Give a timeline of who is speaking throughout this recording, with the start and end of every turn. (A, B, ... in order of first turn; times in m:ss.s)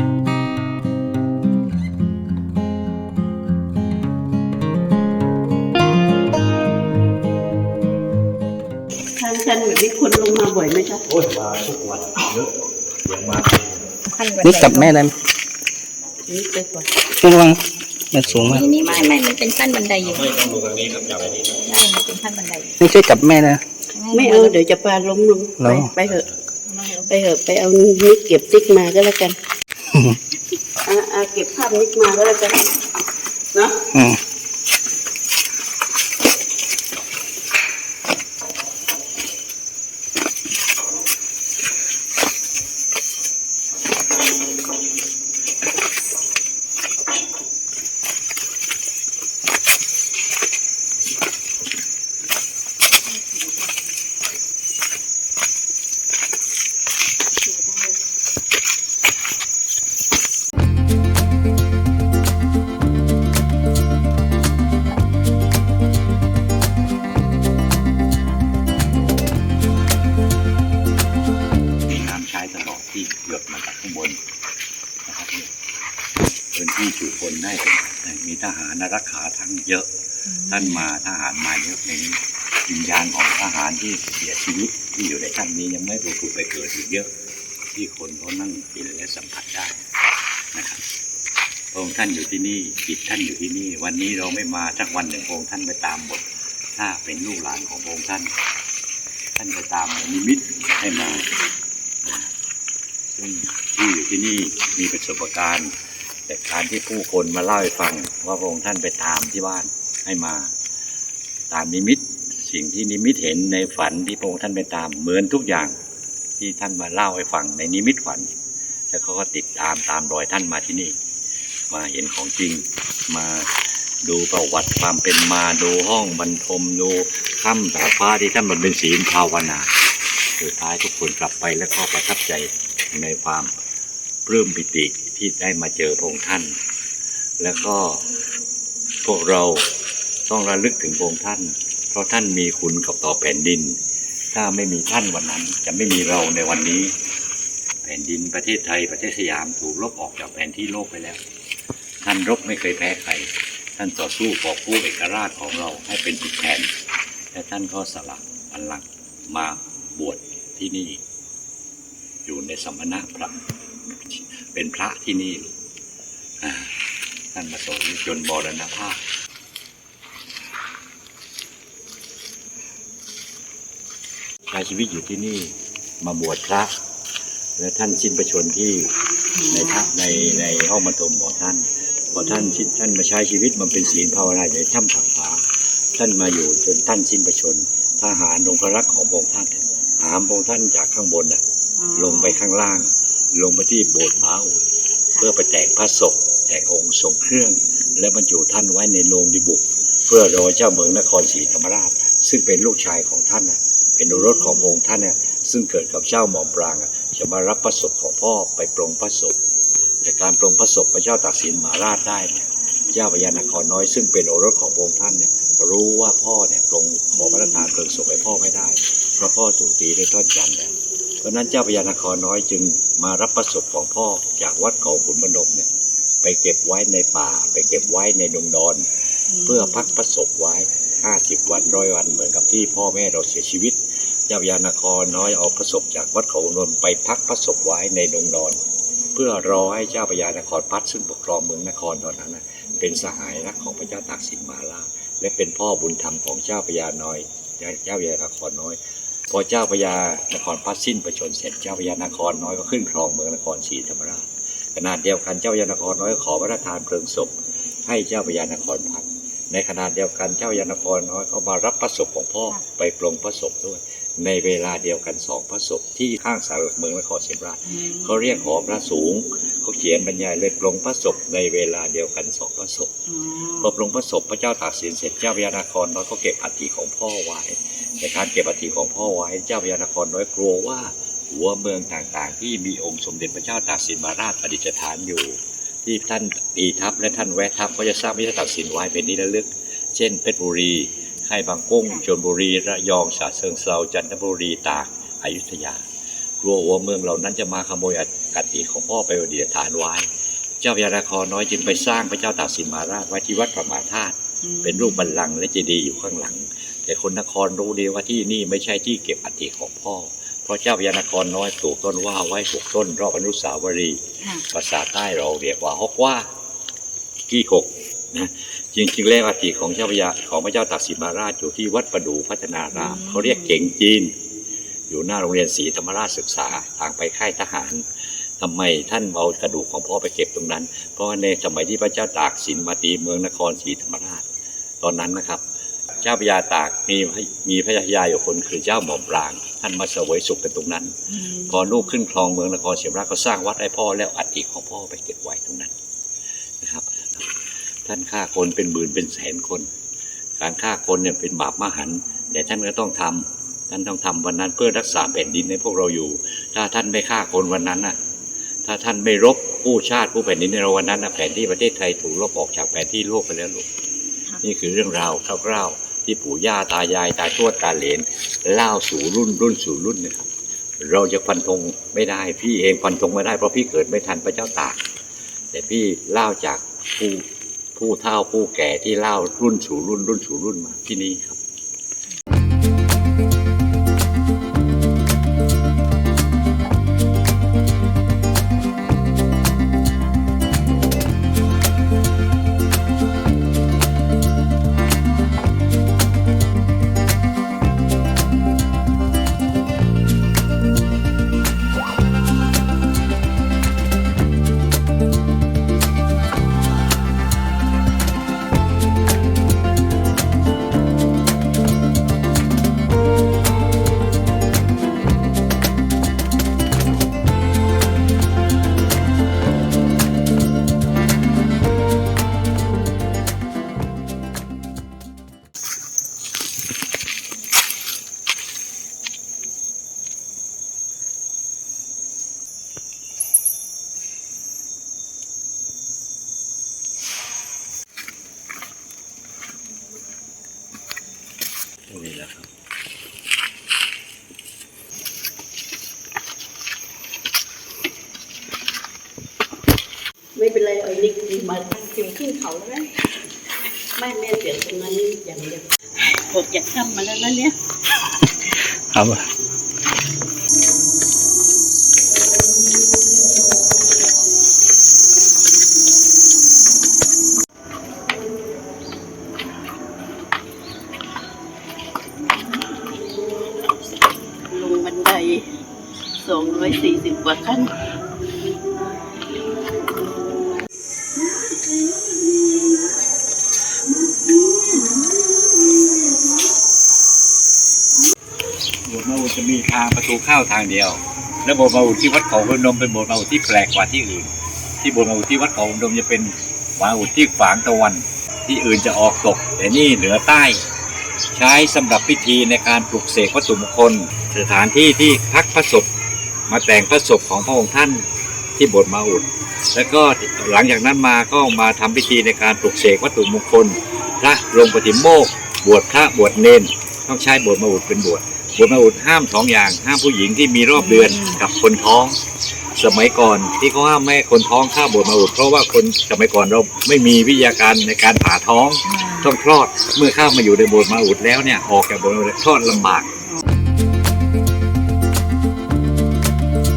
0:09.2-0:11.0 A
0:11.1-0:12.5 B
0:13.0-0:13.9 B
0:14.0-0:15.0 C
0:14.4-0:15.1 D
0:16.3-0:16.9 A
0:17.2-0:18.6 D
0:18.2-0:19.2 B
0:18.5-0:20.3 C
0:20.0-0:21.6 B
0:21.5-0:22.8 C
0:22.8-0:23.6 D
0:23.9-0:24.5 C
0:24.1-0:26.2 A
0:25.6-0:25.9 D
0:26.0-0:26.4 B
0:26.7-0:27.1 C
0:27.1-0:29.4 A
0:29.9-0:30.2 D
0:30.8-0:32.6 A
0:33.9-0:34.2 D
0:57.4-0:57.9 C
1:11.8-1:14.2 B
1:15.0-1:15.5 B
1:16.5-1:19.9 B
1:20.3-1:20.8 C
1:20.5-1:27.1 B
1:27.6-1:29.8 B
1:30.5-1:30.8 B
1:31.7-1:38.3 B
1:39.4-1:41.3 B
1:42.0-1:42.3 B
1:43.1-1:45.7 B
1:46.3-1:50.5 B
1:51.5-1:55.7 B
1:56.4-1:58.3 B
1:58.9-2:00.9 B
2:01.7-2:09.7 B
2:10.4-2:13.5 B
2:14.2-2:16.5 B
2:17.4-2:18.0 B
2:19.0-2:19.7 B
2:20.3-2:23.8 B
2:24.3-2:26.9 B
2:27.8-2:31.2 B
2:32.0-2:36.7 B
2:37.3-2:41.0 B
2:42.2-2:45.5 B
2:46.4-2:49.0 B
2:54.5-2:56.7 B
2:57.6-2:58.9 B
2:59.4-2:59.9 C
2:59.5-3:11.4 B
3:11.8-3:12.4 C
3:11.9-3:14.6 B
3:15.2-3:29.4 B
3:24.1-3:24.7 C
3:30.0-3:45.7 B
3:37.3-3:37.6 C
3:46.2-3:48.9 B
3:49.3-3:49.8 C
3:49.4-3:58.6 B
3:59.1-4:17.3 B
4:17.8-4:32.9 B
4:27.7-4:28.2 C
4:33.1-4:33.7 C
4:33.6-4:55.8 B
4:56.4-5:14.0 B
5:04.4-5:05.0 C
5:14.5-5:16.3 B
5:17.3-5:24.1 B
5:22.7-5:23.6 C
5:24.9-5:27.8 B
5:28.4-5:34.2 B
5:34.8-5:35.4 B
5:36.0-5:41.0 B
5:41.1-5:41.9 C
5:41.5-5:45.7 B
5:46.6-5:47.3 B
5:47.8-5:49.7 B
5:50.4-5:58.0 B
5:58.6-6:03.7 B
6:04.4-6:14.8 B
6:15.5-6:21.4 B
7:21.9-7:22.5 B
7:30.4-7:31.7 A
7:31.7-7:32.9 C
7:34.0-7:37.5 A
7:38.4-7:39.2 D
7:54.5-7:55.4 A
7:56.2-7:57.7 A
8:08.8-8:20.6 B
8:21.3-8:25.9 B
8:26.5-8:42.2 B
8:40.7-8:41.4 C
8:42.7-8:53.1 B
8:48.8-8:49.3 C